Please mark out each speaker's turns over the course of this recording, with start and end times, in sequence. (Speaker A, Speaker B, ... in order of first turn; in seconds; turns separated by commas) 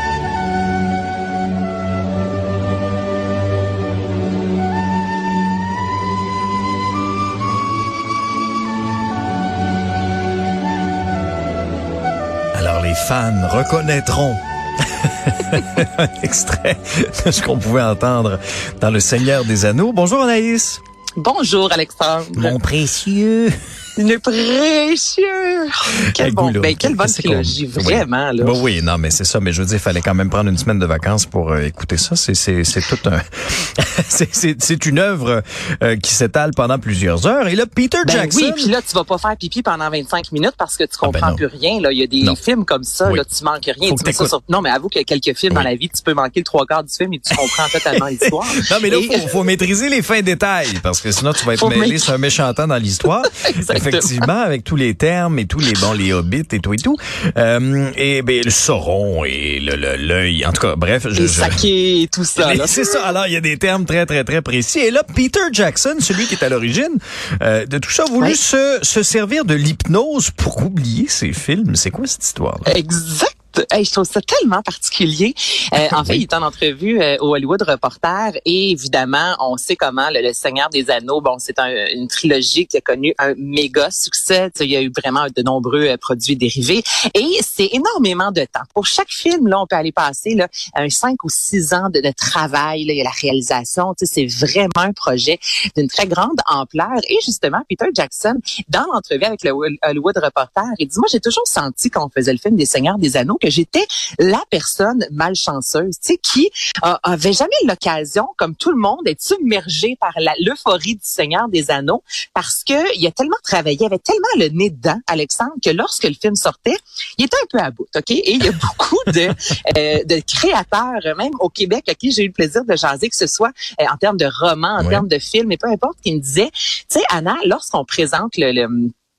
Speaker A: 12.5-20.8, Speaker B: 21.2-22.6, Speaker A: 22.3-23.5, Speaker B: 23.9-28.6, Speaker A: 26.1-38.7, Speaker B: 38.0-49.3, Speaker A: 41.0-41.4, Speaker A: 43.8-44.3, Speaker A: 48.6-61.6, Speaker B: 51.5-52.1, Speaker B: 53.2-54.2, Speaker B: 61.1-63.0, Speaker A: 62.4-72.7, Speaker B: 72.6-128.9, Speaker A: 75.9-76.2, Speaker A: 124.8-125.0